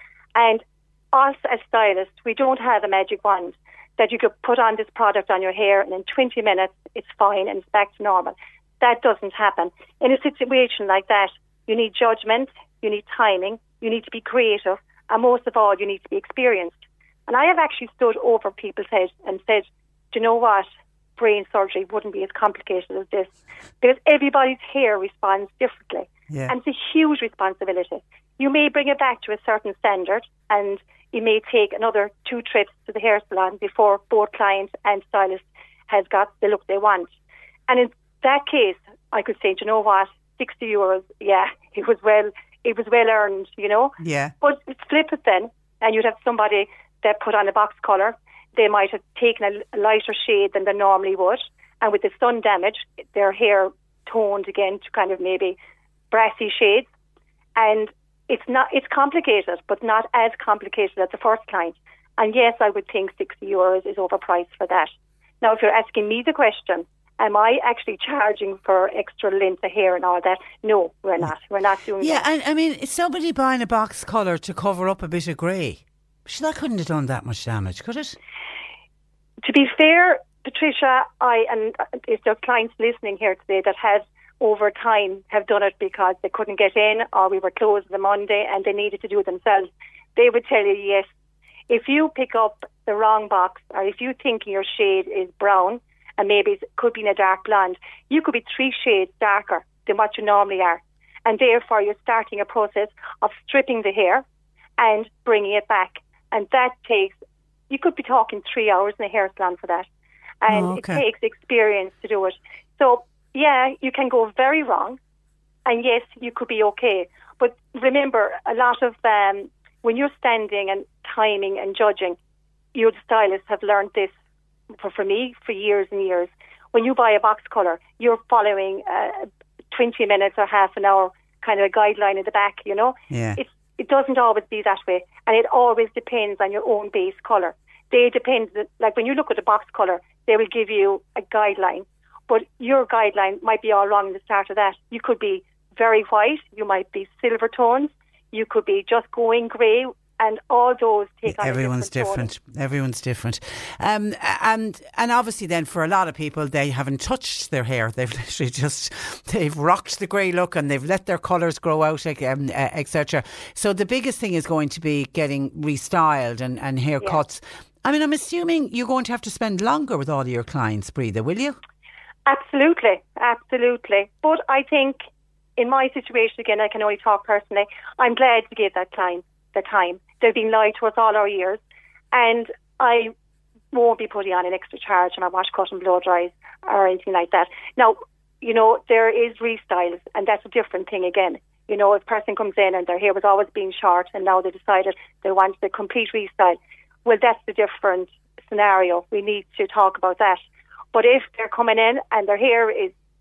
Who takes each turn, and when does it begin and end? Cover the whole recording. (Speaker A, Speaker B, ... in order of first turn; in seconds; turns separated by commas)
Speaker A: 0.4-37.1, Speaker B: 26.3-26.5, Speaker A: 37.7-55.6, Speaker B: 44.0-44.3, Speaker A: 56.1-56.9, Speaker A: 57.6-72.2, Speaker B: 72.0-78.2, Speaker A: 79.4-91.1, Speaker A: 91.7-104.2, Speaker A: 104.8-107.2, Speaker A: 107.7-109.9, Speaker A: 110.4-115.0, Speaker B: 110.5-111.0, Speaker A: 115.7-122.2, Speaker A: 122.8-124.1, Speaker A: 124.8-152.3, Speaker B: 133.1-133.4, Speaker B: 151.3-171.6, Speaker A: 172.3-175.0, Speaker A: 175.6-181.6, Speaker A: 182.1-183.1, Speaker A: 183.7-202.9